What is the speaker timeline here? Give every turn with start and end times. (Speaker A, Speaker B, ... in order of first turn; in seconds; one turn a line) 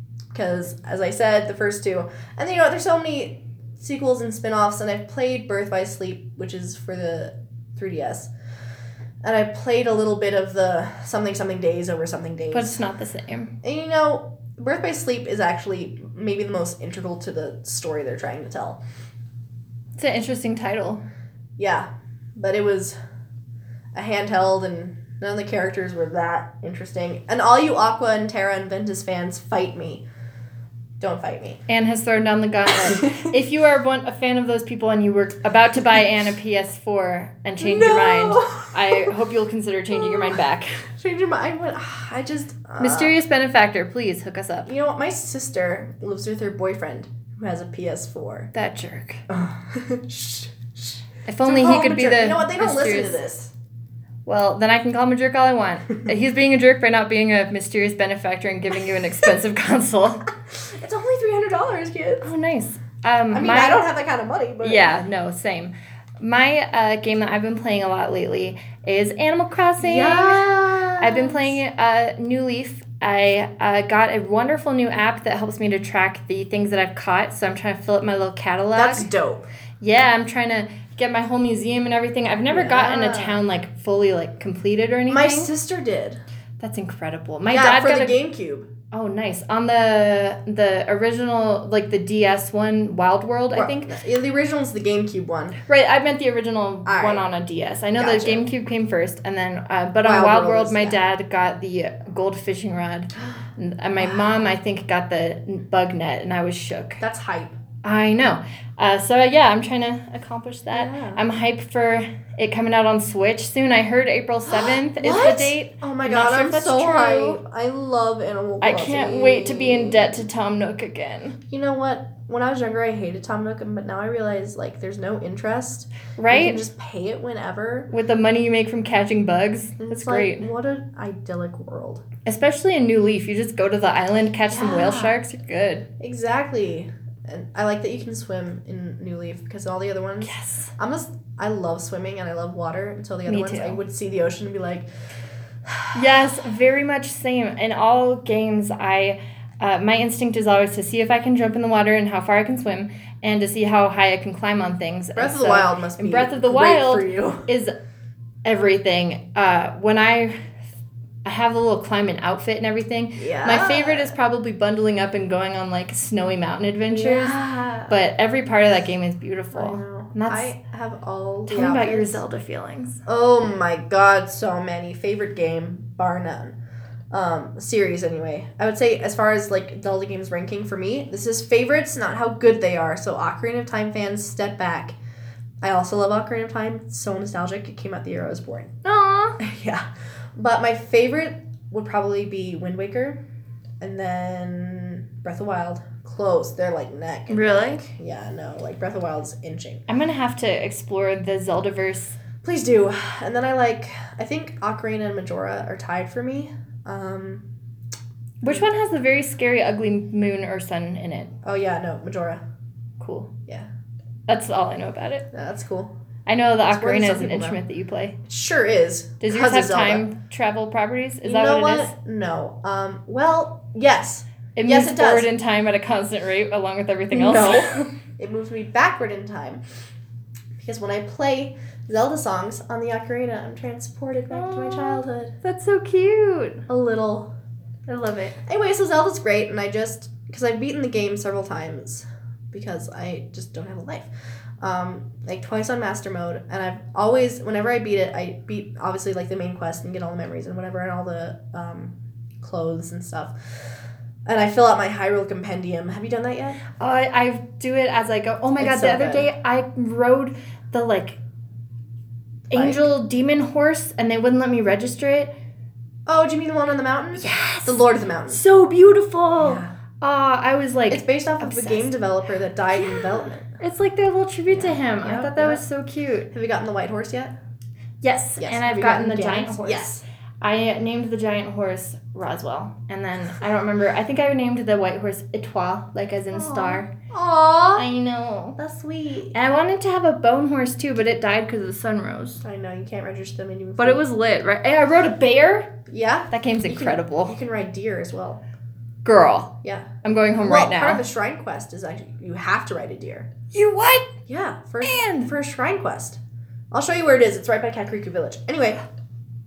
Speaker A: 0.3-8.3
Speaker A: 9.2-12.8
Speaker B: 12.5-13.5
Speaker A: 13.6-18.8
Speaker B: 20.0-21.0
Speaker A: 21.6-22.9
Speaker A: 23.9-30.0
Speaker A: 31.0-31.6
Speaker B: 31.7-40.8
Speaker A: 33.0-33.3
Speaker A: 37.6-39.1
Speaker A: 40.0-40.4
Speaker A: 41.0-43.1
Speaker B: 42.8-44.7
Speaker A: 44.6-48.5
Speaker B: 48.5-49.2
Speaker A: 49.3-53.5
Speaker B: 51.3-53.2
Speaker B: 54.2-60.2
Speaker A: 60.5-62.3
Speaker B: 62.2-63.8
Speaker A: 63.3-65.0
Speaker B: 64.6-70.5
Speaker A: 69.8-71.6
Speaker B: 71.0-79.1
Speaker A: 78.7-79.5
Speaker B: 79.8-85.5
Speaker A: 82.5-83.4
Speaker A: 85.1-86.2
Speaker B: 86.6-88.2
Speaker A: 87.5-88.7
Speaker B: 88.9-93.9
Speaker A: 93.5-95.6
Speaker B: 95.7-107.0
Speaker A: 96.8-97.2
Speaker A: 97.9-98.5
Speaker A: 100.0-101.0
Speaker A: 104.0-104.3
Speaker A: 107.0-107.5
Speaker B: 107.8-117.4
Speaker A: 110.7-111.2
Speaker A: 114.5-120.2
Speaker B: 118.6-121.4
Speaker A: 121.5-127.9
Speaker B: 126.2-126.6
Speaker B: 127.9-130.5
Speaker A: 129.8-132.0
Speaker B: 132.2-135.8
Speaker A: 134.5-135.1
Speaker A: 136.0-144.9
Speaker B: 140.2-140.7
Speaker B: 143.2-143.8
Speaker A: 145.7-146.0
Speaker B: 145.9-157.7
Speaker A: 155.2-157.5
Speaker B: 158.4-160.3
Speaker B: 161.2-167.4
Speaker A: 163.2-164.1
Speaker A: 166.9-167.9
Speaker B: 167.9-170.5
Speaker A: 169.5-172.2
Speaker B: 171.5-173.0
Speaker A: 173.1-176.5
Speaker A: 177.1-184.9
Speaker A: 185.6-188.7
Speaker B: 188.8-189.4
Speaker A: 189.4-189.8
Speaker A: 190.3-193.2
Speaker A: 193.8-199.8
Speaker B: 197.3-197.8
Speaker B: 199.9-202.2
Speaker A: 202.4-207.4
Speaker B: 208.4-211.3
Speaker A: 211.4-212.4
Speaker B: 213.0-213.3
Speaker B: 214.3-215.3
Speaker A: 215.3-215.9
Speaker B: 216.3-218.2
Speaker A: 216.7-217.6
Speaker A: 218.2-220.1
Speaker B: 219.2-221.9
Speaker A: 221.2-225.3
Speaker B: 224.6-227.7
Speaker A: 227.1-229.6
Speaker A: 230.6-235.3
Speaker B: 234.3-236.6
Speaker A: 236.7-237.3
Speaker B: 237.9-238.3
Speaker A: 238.4-244.1
Speaker A: 244.6-253.3
Speaker A: 254.2-256.8
Speaker B: 256.7-261.2
Speaker A: 258.6-259.3
Speaker B: 262.5-265.3
Speaker A: 262.5-262.9
Speaker A: 266.1-268.4
Speaker B: 267.2-271.9
Speaker A: 269.4-269.7
Speaker A: 270.9-273.5
Speaker B: 272.7-276.3
Speaker A: 274.5-275.6
Speaker A: 276.3-277.3
Speaker B: 278.0-286.9
Speaker A: 278.4-280.0
Speaker A: 286.3-287.9
Speaker B: 287.8-288.6
Speaker A: 288.6-289.3
Speaker B: 289.3-292.4
Speaker A: 292.4-294.0
Speaker B: 293.8-295.8
Speaker A: 295.9-298.4
Speaker B: 296.3-297.4
Speaker B: 299.0-301.0
Speaker A: 299.6-303.3
Speaker B: 303.5-304.1
Speaker A: 304.3-306.2
Speaker B: 304.8-305.3
Speaker A: 306.7-308.8